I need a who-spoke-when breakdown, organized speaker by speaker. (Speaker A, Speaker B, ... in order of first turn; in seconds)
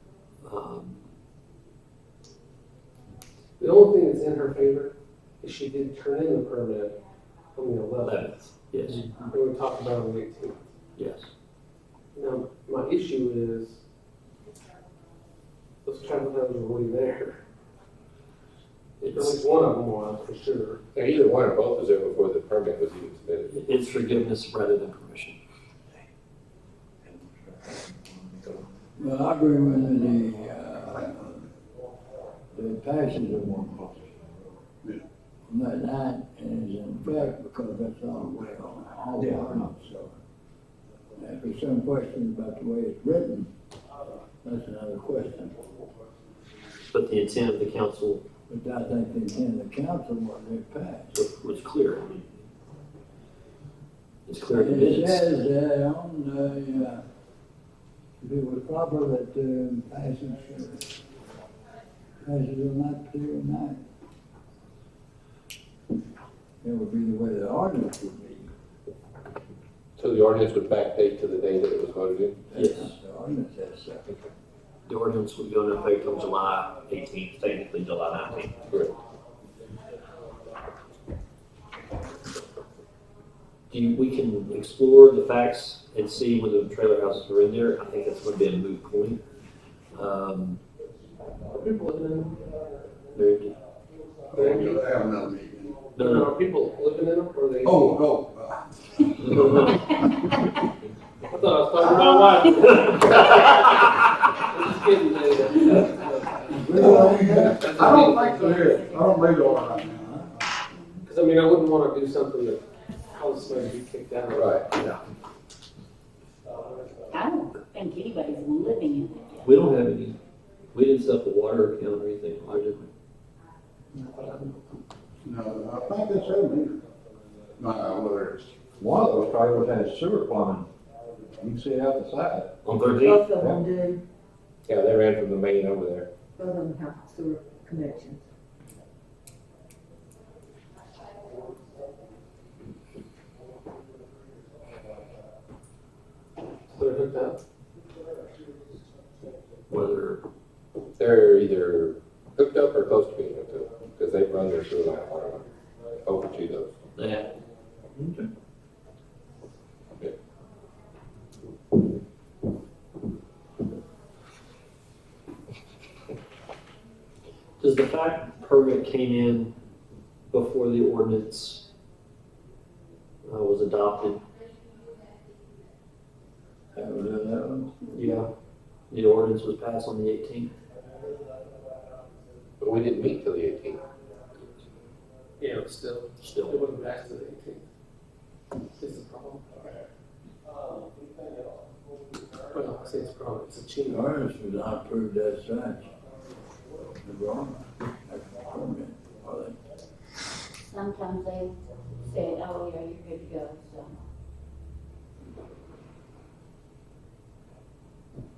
Speaker A: 0.4-1.0, 8.0-9.1, 11.0-11.3, 19.0-19.4, 23.5-25.4, 46.9-48.2, 51.1-52.3, 54.3-55.4, 72.5-72.9, 74.9-78.6, 83.7-89.2, 89.9-90.6, 93.1-93.5, 96.0-96.3, 99.2-99.8, 102.9-103.2, 119.4-120.2, 120.7-122.9, 132.7-133.3, 149.7-150.2, 157.0-157.3, 167.6-169.5, 170.3-171.6, 173.2-174.2, 177.9-178.3, 178.9-180.5, 186.2-186.6
Speaker B: 3.6-7.0, 7.6-8.3, 9.3-10.7, 12.2-13.8, 15.8-17.4, 19.1-20.8, 91.5-92.4, 94.3-94.8, 96.0-98.1, 101.3-106.5, 107.4-108.7, 111.1-115.0, 146.7-147.4, 185.4-187.7, 188.8-189.7, 192.5-194.1
Speaker C: 20.9-23.5, 70.0-72.4, 114.3-115.0, 134.7-136.1, 151.0-155.4, 156.1-156.7, 182.6-183.8
Speaker D: 29.0-31.5, 32.5-34.0, 35.5-40.1, 41.2-43.5, 44.4-45.6, 48.5-51.1, 54.5-57.0, 58.2-60.8, 62.2-63.8, 66.6-68.5, 72.5-74.1, 106.5-107.7, 158.0-158.2, 176.7-177.8, 193.9-195.9, 197.0-199.6
Speaker E: 94.3-95.8, 97.6-98.7, 106.7-110.3, 125.2-126.8, 127.6-128.7
Speaker F: 106.7-107.4, 133.0-134.0, 136.4-138.2
Speaker G: 107.9-110.0, 117.1-119.5, 200.6-204.0
Speaker H: 128.8-130.7, 131.4-133.5